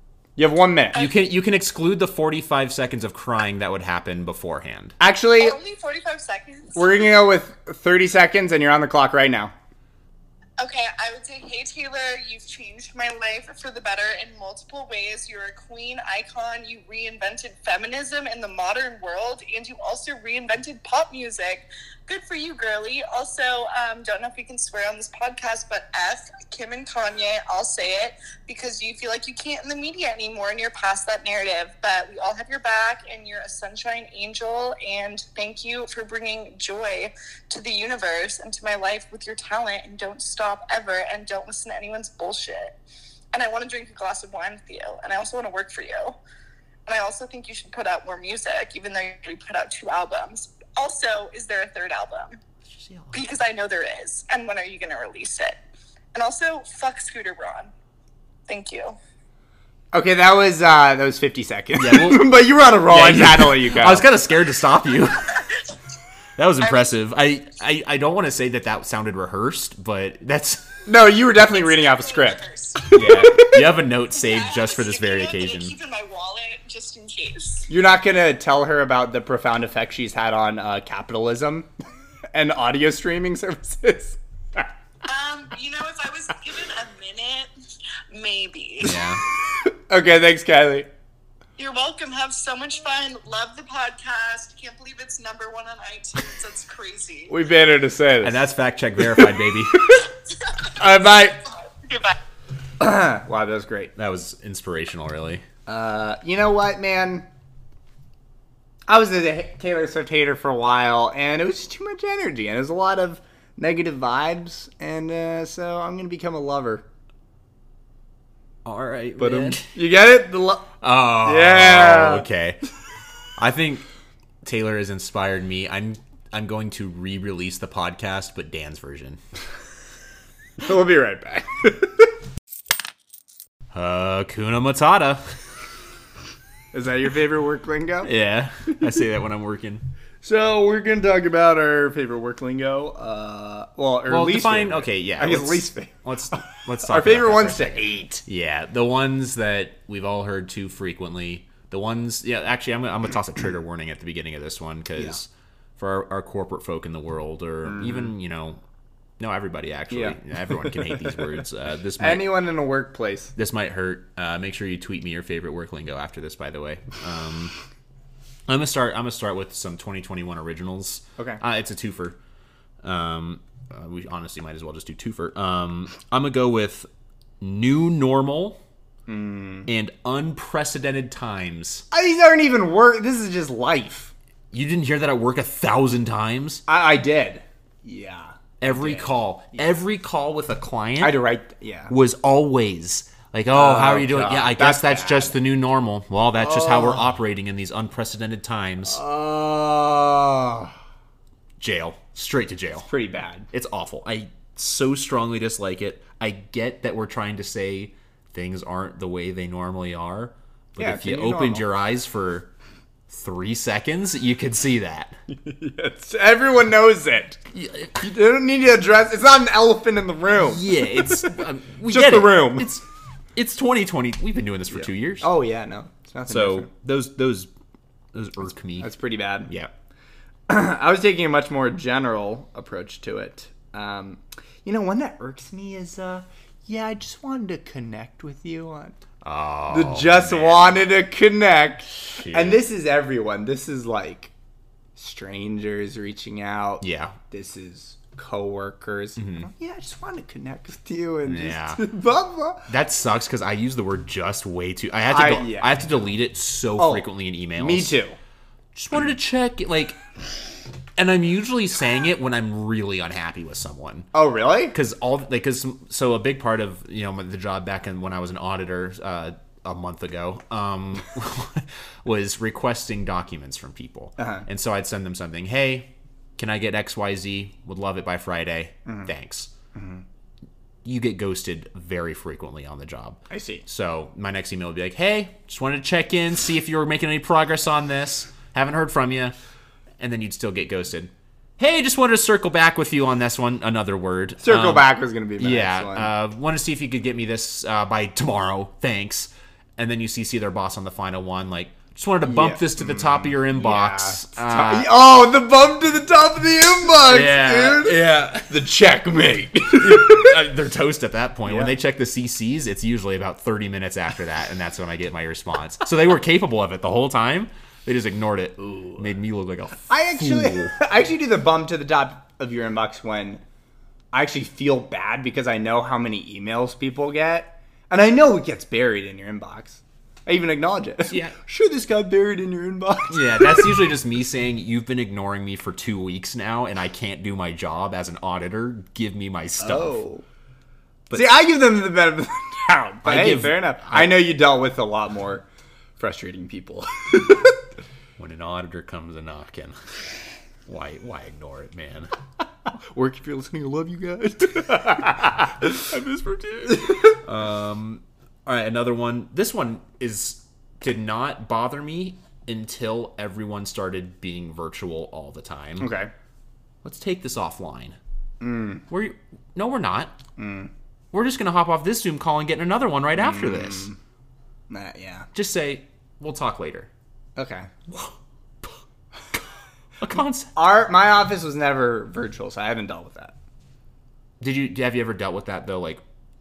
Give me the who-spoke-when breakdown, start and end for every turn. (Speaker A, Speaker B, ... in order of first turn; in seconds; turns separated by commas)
Speaker A: 0.4-1.0, Speaker B: 0.9-5.0, Speaker A: 5.0-5.6, Speaker C: 5.4-7.0, Speaker A: 6.7-9.5, Speaker C: 10.6-42.8, Speaker C: 43.3-46.2, Speaker C: 46.9-52.4, Speaker B: 52.7-53.2, Speaker C: 53.1-55.6, Speaker C: 56.1-57.7, Speaker C: 58.5-59.0, Speaker A: 59.9-64.1, Speaker B: 61.8-62.3, Speaker B: 62.8-65.3, Speaker B: 66.4-70.7, Speaker C: 66.6-66.9, Speaker A: 70.9-73.7, Speaker C: 71.4-73.0, Speaker B: 72.9-75.7, Speaker C: 74.1-77.7, Speaker A: 77.7-81.7, Speaker A: 82.3-84.7, Speaker C: 85.0-87.5, Speaker C: 88.1-89.0, Speaker B: 88.8-89.2, Speaker A: 89.7-90.9, Speaker C: 91.6-97.3, Speaker A: 97.3-98.5, Speaker B: 98.2-99.9, Speaker A: 100.7-101.4, Speaker C: 101.8-102.1, Speaker A: 102.8-103.9, Speaker B: 104.0-105.4, Speaker A: 105.7-107.3, Speaker A: 108.9-116.8, Speaker B: 118.6-119.7, Speaker A: 119.2-122.2, Speaker B: 120.8-122.6, Speaker B: 123.4-123.8, Speaker B: 124.4-129.2, Speaker A: 130.6-132.1, Speaker B: 133.7-135.2, Speaker A: 136.7-138.1, Speaker B: 138.0-139.8, Speaker A: 140.2-148.2, Speaker B: 144.1-158.6, Speaker A: 157.6-158.1, Speaker B: 159.2-162.3, Speaker A: 159.9-161.2, Speaker A: 162.0-163.3, Speaker B: 163.4-167.5, Speaker B: 168.5-172.2, Speaker B: 172.8-176.9, Speaker B: 177.4-178.6, Speaker A: 179.1-179.7, Speaker B: 179.7-181.8, Speaker A: 181.9-184.1, Speaker B: 184.5-186.6, Speaker A: 186.7-189.1, Speaker B: 188.6-191.2, Speaker A: 191.0-191.9, Speaker B: 191.9-199.0, Speaker A: 193.5-195.3, Speaker A: 196.4-197.1, Speaker A: 198.8-200.7, Speaker B: 201.6-202.9, Speaker A: 202.9-203.5, Speaker B: 203.5-212.5, Speaker A: 210.8-211.7, Speaker B: 213.1-215.1, Speaker A: 215.3-217.4, Speaker B: 217.5-217.9, Speaker A: 217.9-222.7, Speaker B: 220.4-222.8, Speaker B: 223.3-225.3, Speaker A: 224.7-226.7, Speaker B: 226.3-227.5, Speaker B: 228.1-228.9, Speaker A: 228.8-229.5, Speaker B: 229.5-229.7, Speaker A: 230.5-239.0, Speaker B: 239.2-240.8, Speaker A: 239.7-244.3, Speaker B: 242.1-242.6, Speaker A: 244.9-252.7, Speaker B: 246.8-247.2, Speaker B: 249.2-249.5, Speaker B: 251.2-251.8, Speaker B: 252.7-258.0, Speaker A: 255.1-255.9, Speaker A: 256.8-258.2, Speaker B: 258.7-260.0, Speaker B: 260.9-264.1, Speaker A: 264.1-264.8, Speaker B: 264.7-279.5, Speaker A: 274.2-274.5, Speaker A: 278.9-279.1, Speaker A: 279.7-280.0, Speaker B: 280.8-289.3, Speaker A: 283.3-283.6, Speaker B: 290.0-304.9, Speaker A: 294.4-296.1, Speaker A: 302.2-310.4, Speaker B: 307.0-308.6, Speaker B: 309.7-320.7, Speaker A: 311.4-311.7, Speaker A: 318.6-319.0, Speaker A: 319.9-323.4, Speaker A: 324.1-333.9, Speaker B: 331.1-331.3, Speaker B: 333.1-340.0, Speaker A: 339.6-340.2, Speaker B: 341.1-341.4, Speaker A: 341.1-345.4, Speaker B: 343.0-344.2, Speaker A: 346.0-347.6, Speaker B: 348.2-349.8, Speaker B: 350.7-352.1, Speaker A: 352.9-357.2, Speaker B: 355.9-365.9, Speaker A: 365.8-366.1, Speaker B: 366.8-368.0, Speaker A: 368.4-368.9, Speaker B: 368.9-370.1, Speaker A: 370.4-370.7, Speaker B: 371.1-373.9, Speaker A: 373.1-374.0, Speaker A: 374.7-375.3, Speaker B: 375.3-376.9, Speaker A: 377.4-377.7, Speaker B: 380.0-380.5, Speaker A: 380.5-383.3, Speaker B: 384.4-386.0